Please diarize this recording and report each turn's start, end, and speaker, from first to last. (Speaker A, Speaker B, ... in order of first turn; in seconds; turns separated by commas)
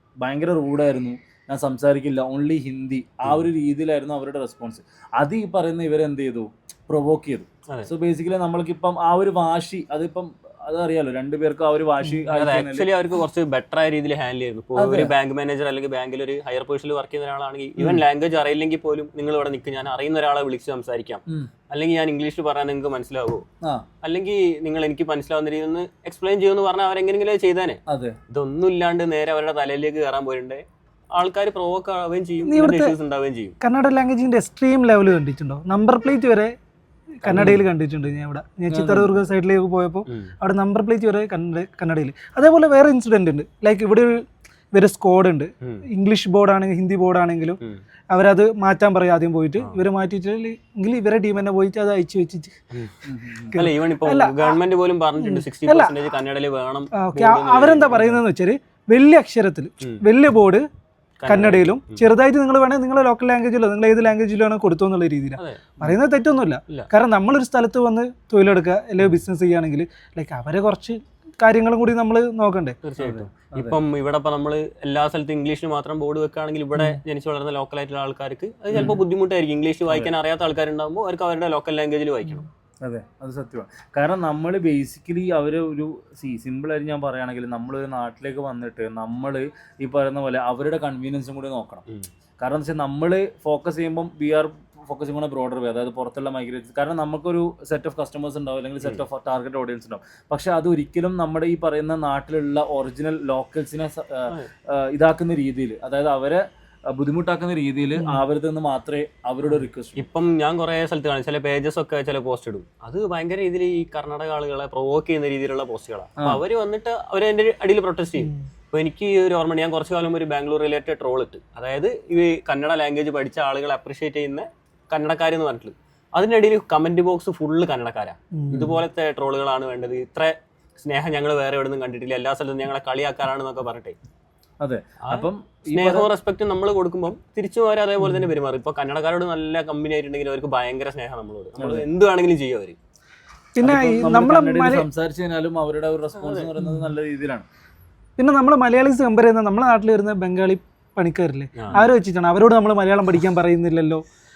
Speaker A: 0.2-12.9, Speaker B: 12.3-23.4, Speaker A: 14.8-15.1, Speaker A: 17.8-18.0, Speaker B: 24.0-33.5, Speaker A: 27.9-28.2, Speaker C: 32.4-33.0, Speaker C: 33.6-36.5, Speaker C: 37.2-47.6, Speaker B: 37.3-37.6, Speaker B: 38.7-39.3, Speaker B: 40.1-40.3, Speaker C: 48.1-52.6, Speaker A: 53.0-53.6, Speaker C: 53.5-54.6, Speaker B: 53.5-58.2, Speaker C: 55.2-55.9, Speaker C: 56.9-60.6, Speaker B: 61.2-62.0, Speaker C: 61.3-72.8, Speaker B: 65.4-65.8, Speaker B: 72.8-82.4, Speaker A: 73.0-73.8, Speaker A: 78.7-79.0, Speaker A: 82.8-91.8, Speaker A: 92.4-106.4, Speaker A: 106.9-110.0, Speaker C: 108.0-108.2, Speaker B: 109.5-133.9, Speaker C: 128.3-128.7, Speaker A: 134.6-136.1, Speaker B: 135.0-142.8, Speaker A: 141.6-141.8, Speaker C: 143.5-144.9, Speaker A: 143.6-147.4, Speaker B: 146.2-146.5, Speaker C: 146.6-146.9, Speaker C: 148.2-154.0, Speaker B: 151.6-151.9